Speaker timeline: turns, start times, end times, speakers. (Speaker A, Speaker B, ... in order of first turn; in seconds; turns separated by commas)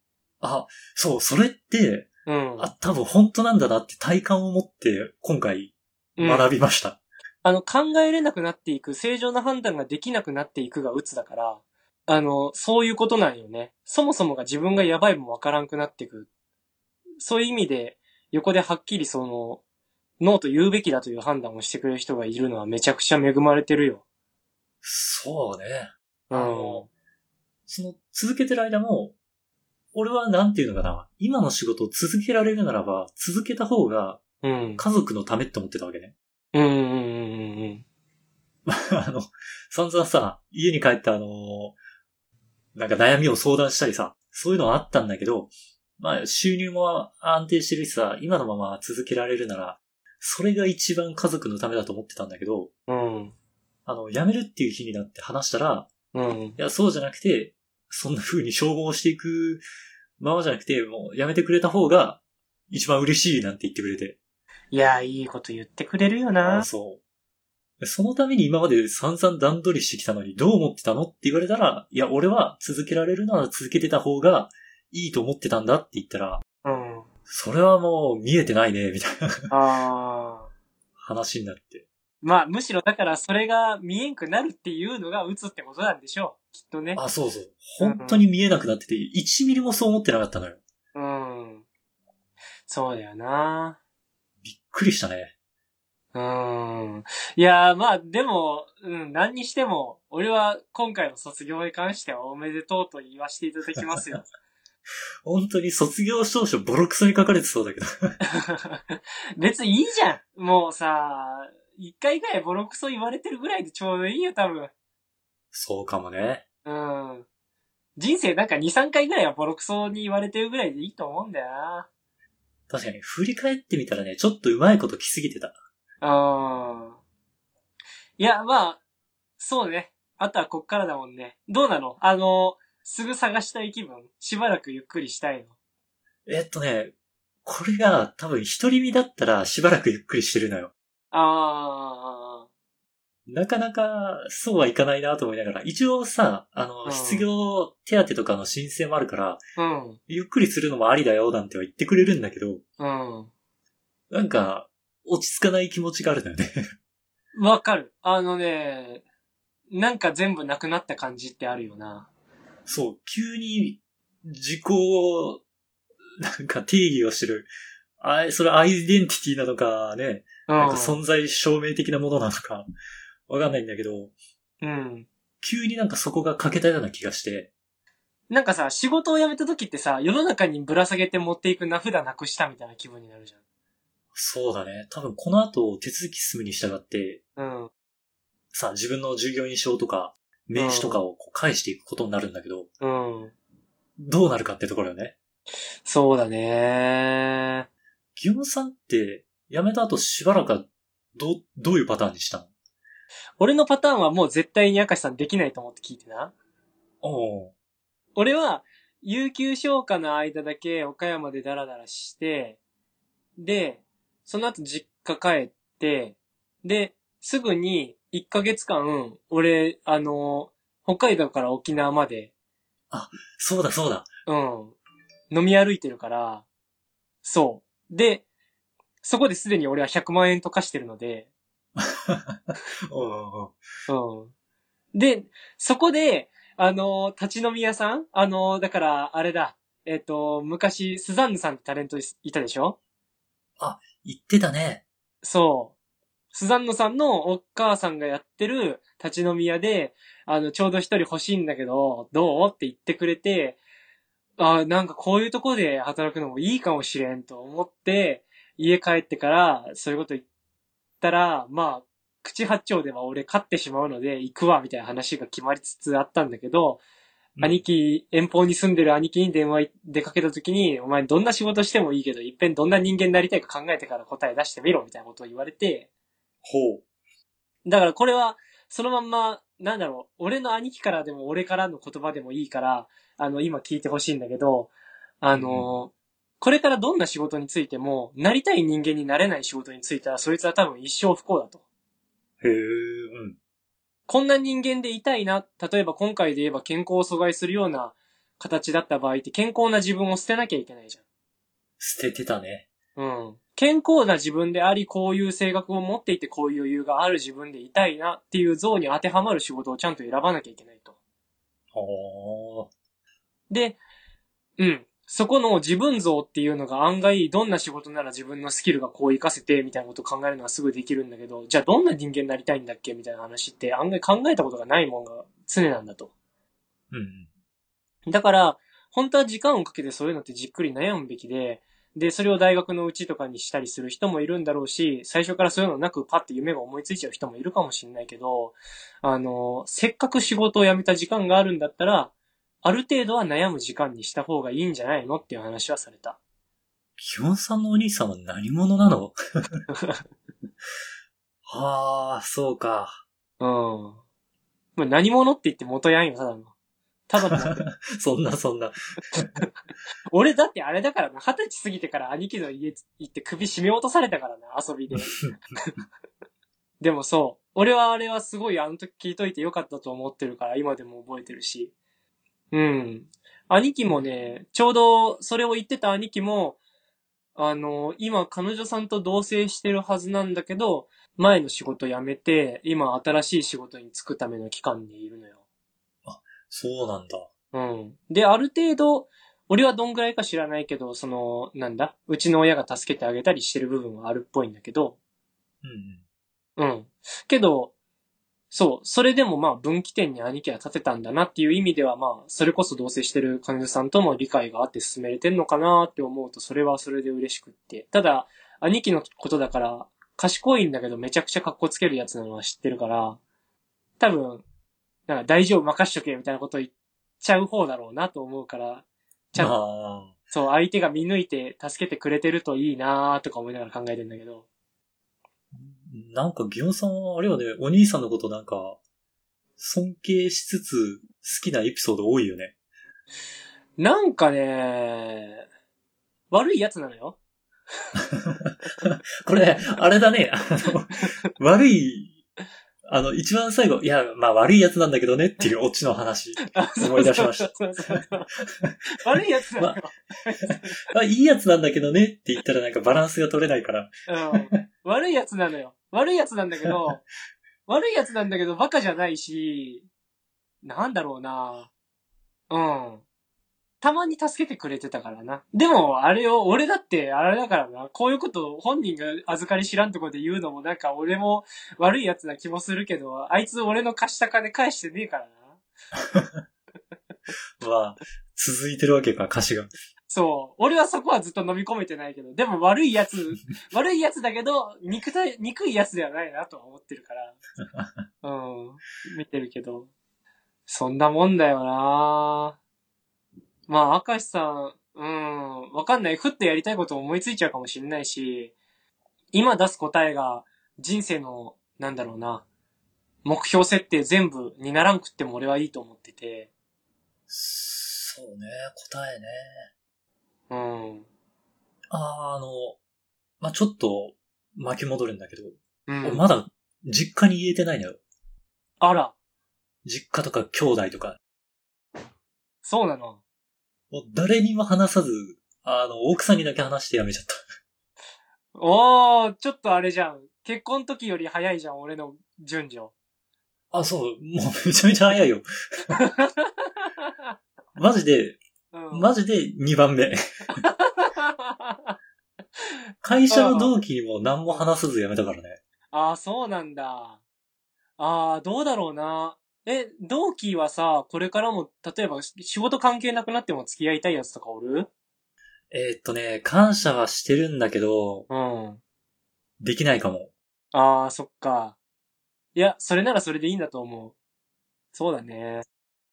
Speaker A: 0.4-7.0, Speaker B: 2.3-2.7, Speaker B: 6.2-6.5, Speaker B: 7.4-16.3, Speaker B: 17.2-19.6, Speaker B: 20.2-24.0, Speaker A: 24.8-26.9, Speaker B: 26.3-26.9, Speaker A: 27.7-29.1, Speaker A: 29.9-34.2, Speaker B: 34.4-34.8, Speaker A: 34.8-36.1, Speaker B: 36.5-37.8, Speaker A: 38.7-41.8, Speaker A: 42.8-52.7, Speaker B: 52.9-53.4, Speaker A: 53.9-55.9, Speaker B: 56.1-56.6, Speaker A: 56.6-59.6, Speaker A: 60.2-64.2, Speaker B: 64.7-66.7, Speaker A: 66.4-67.0, Speaker A: 67.8-76.4, Speaker B: 76.6-77.1, Speaker A: 77.3-79.5, Speaker B: 79.5-80.5, Speaker A: 81.0-81.9, Speaker B: 82.2-87.0, Speaker A: 87.0-90.6, Speaker B: 87.8-88.2, Speaker B: 90.9-91.7, Speaker B: 92.7-93.8, Speaker A: 94.4-95.3, Speaker B: 96.1-104.3, Speaker A: 105.2-108.2, Speaker B: 108.3-114.7, Speaker A: 115.5-116.4, Speaker B: 116.7-117.3, Speaker B: 118.0-121.9, Speaker A: 122.7-125.6, Speaker B: 126.0-127.0, Speaker B: 128.2-128.8, Speaker B: 129.4-135.5, Speaker A: 136.3-136.9, Speaker A: 137.4-140.7, Speaker B: 141.1-142.5, Speaker A: 143.3-149.4, Speaker B: 146.8-147.3, Speaker B: 149.6-150.0, Speaker A: 150.1-152.6, Speaker B: 152.8-153.3, Speaker A: 154.1-156.6, Speaker B: 157.3-159.0, Speaker B: 159.7-162.1, Speaker A: 162.7-165.4, Speaker A: 166.2-172.7, Speaker B: 170.5-171.0, Speaker A: 173.3-174.1, Speaker B: 174.6-175.1, Speaker A: 175.4-177.5, Speaker B: 178.3-183.4, Speaker A: 184.1-187.2, Speaker B: 187.4-187.7, Speaker A: 188.5-192.7, Speaker B: 190.6-191.0, Speaker B: 192.8-193.3, Speaker A: 194.0-195.2, Speaker B: 195.8-197.7, Speaker A: 198.2-202.5, Speaker B: 203.4-206.3, Speaker A: 207.0-207.5, Speaker B: 208.2-212.6, Speaker B: 213.4-222.3, Speaker A: 222.9-224.1, Speaker B: 224.3-224.8, Speaker B: 225.3-226.4, Speaker B: 227.2-228.2, Speaker B: 229.0-231.3, Speaker A: 231.8-233.6, Speaker B: 233.9-234.3, Speaker B: 234.9-242.8, Speaker A: 243.6-244.8, Speaker B: 245.2-245.8, Speaker B: 246.3-253.6, Speaker B: 254.4-260.2, Speaker B: 261.0-266.8, Speaker A: 267.4-267.6, Speaker B: 267.4-275.9, Speaker A: 276.4-276.8, Speaker B: 277.6-291.6, Speaker A: 285.3-285.7, Speaker A: 292.4-293.4, Speaker B: 294.1-301.0, Speaker A: 301.8-302.7, Speaker B: 303.0-310.9, Speaker A: 311.7-312.7, Speaker B: 313.5-313.8, Speaker B: 314.6-326.1, Speaker A: 326.9-327.3, Speaker B: 328.1-342.1, Speaker B: 342.6-346.2, Speaker A: 347.0-349.6, Speaker B: 349.7-350.0, Speaker A: 351.4-353.0, Speaker B: 353.4-354.0, Speaker B: 354.8-356.5, Speaker B: 357.1-357.6, Speaker A: 357.3-359.4, Speaker B: 360.1-365.8, Speaker A: 364.9-365.3, Speaker B: 366.8-371.7, Speaker B: 372.5-376.6, Speaker B: 377.4-385.4, Speaker A: 386.1-387.3, Speaker B: 387.5-395.0, Speaker A: 395.6-396.0, Speaker B: 396.6-397.7, Speaker B: 398.5-413.2, Speaker B: 414.0-414.4, Speaker B: 415.1-419.5, Speaker A: 419.4-420.1, Speaker B: 420.3-424.5, Speaker A: 425.5-428.8, Speaker A: 429.6-432.5, Speaker B: 433.8-435.4, Speaker B: 436.3-437.2, Speaker A: 438.0-442.2, Speaker A: 442.9-448.0, Speaker B: 446.5-448.3, Speaker B: 449.0-450.8, Speaker A: 450.5-454.6, Speaker B: 454.1-457.0, Speaker B: 457.7-459.9, Speaker B: 460.6-461.7, Speaker B: 462.5-463.0, Speaker B: 463.8-475.6, Speaker A: 476.1-476.4, Speaker A: 477.6-479.7, Speaker B: 480.1-487.4, Speaker A: 487.7-488.0, Speaker B: 488.2-489.9, Speaker B: 490.7-492.6, Speaker B: 493.7-498.5, Speaker B: 499.3-502.4, Speaker B: 503.2-506.5, Speaker A: 507.3-509.7, Speaker B: 510.5-511.1, Speaker A: 511.9-512.8, Speaker A: 513.4-518.0, Speaker B: 515.9-516.2, Speaker B: 518.8-519.1, Speaker A: 519.9-521.2, Speaker B: 522.6-523.2, Speaker A: 523.9-527.4, Speaker B: 528.5-532.9, Speaker A: 533.7-536.0, Speaker B: 536.0-537.1, Speaker A: 537.8-538.4, Speaker B: 538.7-539.1, Speaker A: 538.9-540.2, Speaker B: 540.6-542.0, Speaker A: 543.0-545.6, Speaker B: 543.3-543.8, Speaker B: 545.9-547.2, Speaker B: 548.0-554.9, Speaker A: 555.7-558.3, Speaker B: 558.3-558.8, Speaker A: 559.6-560.3, Speaker B: 560.7-561.8, Speaker B: 562.5-564.1, Speaker B: 564.9-565.6